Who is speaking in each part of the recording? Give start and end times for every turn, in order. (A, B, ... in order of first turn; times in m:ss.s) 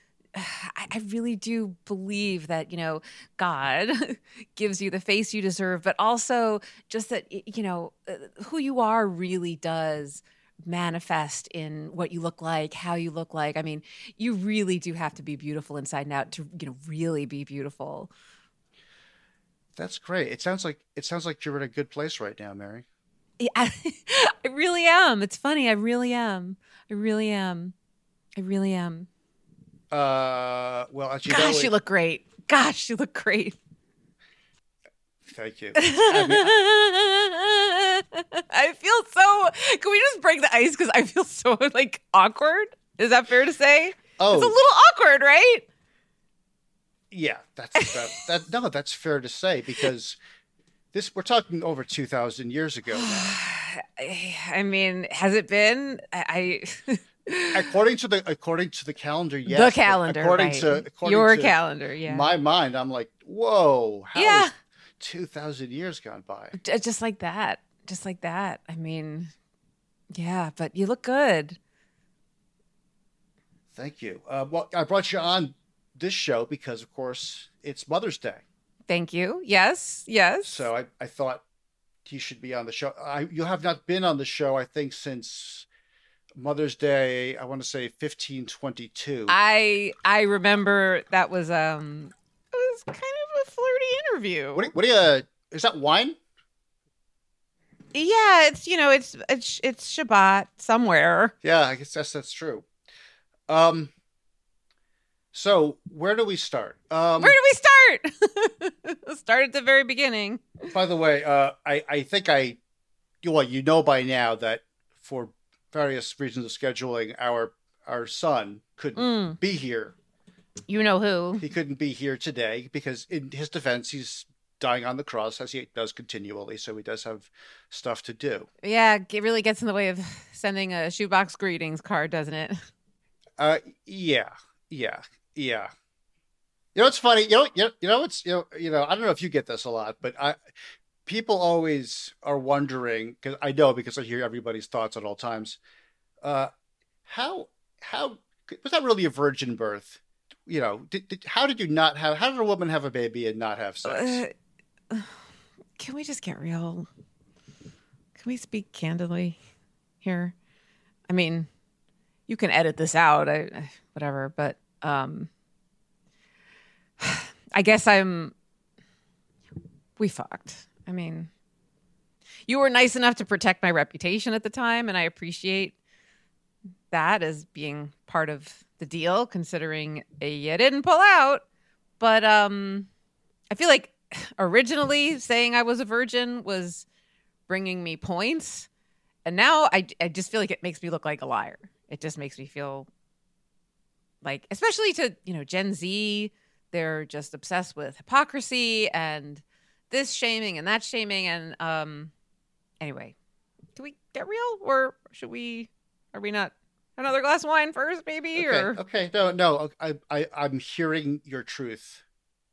0:00.3-0:18.1 A
0:19.8-0:22.8 B
0:23.4-0:27.7 A
0:28.4-0:29.1 A
0:29.9-0:31.7 B
0:31.2-0:33.6 A
0:35.2-0:36.5 B
0:35.8-0:45.6 A
0:44.2-0:44.6 B
0:47.1-0:50.2 B
0:47.8-0:48.2 A
0:50.9-0:53.4 B
0:52.9-0:57.6 A
0:57.5-1:06.6 B
0:59.5-1:02.3 A
1:04.1-1:04.5 A
1:06.6-1:09.3 A
1:10.1-1:11.6 A
1:13.7-1:18.4 B
1:18.9-1:20.7 A
1:20.4-1:21.4 B
1:22.0-1:25.7 B
1:26.4-1:29.4 B
1:29.3-1:34.7 A
1:34.5-1:36.2 B
1:37.9-1:41.3 A
1:41.4-1:42.6 B
1:43.5-1:43.9 B
1:45.3-1:47.4 B
1:47.2-1:50.6 A
1:50.7-1:52.6 B
1:53.2-1:59.9 B
1:59.0-1:59.4 A
2:00.7-2:01.4 A
2:01.4-2:08.5 B
2:08.6-2:12.6 A
2:13.4-2:15.7 B
2:16.7-2:20.4 B
2:21.0-2:25.6 B
2:26.2-2:26.5 B
2:27.0-2:34.2 B
2:33.8-2:34.3 A
2:35.8-2:36.9 A
2:38.2-2:39.4 A
2:40.0-2:40.3 A
2:41.1-2:41.5 A
2:42.3-2:45.3 A
2:47.0-2:48.3 A
2:50.0-2:51.3 A
2:52.5-2:55.7 A
2:56.9-3:01.4 A
3:02.0-3:02.9 A
3:03.5-3:06.8 A
3:07.5-3:08.7 A
3:09.2-3:12.9 A
3:14.2-3:22.1 A
3:22.8-3:23.1 A
3:23.8-3:28.8 A
3:28.4-3:32.0 B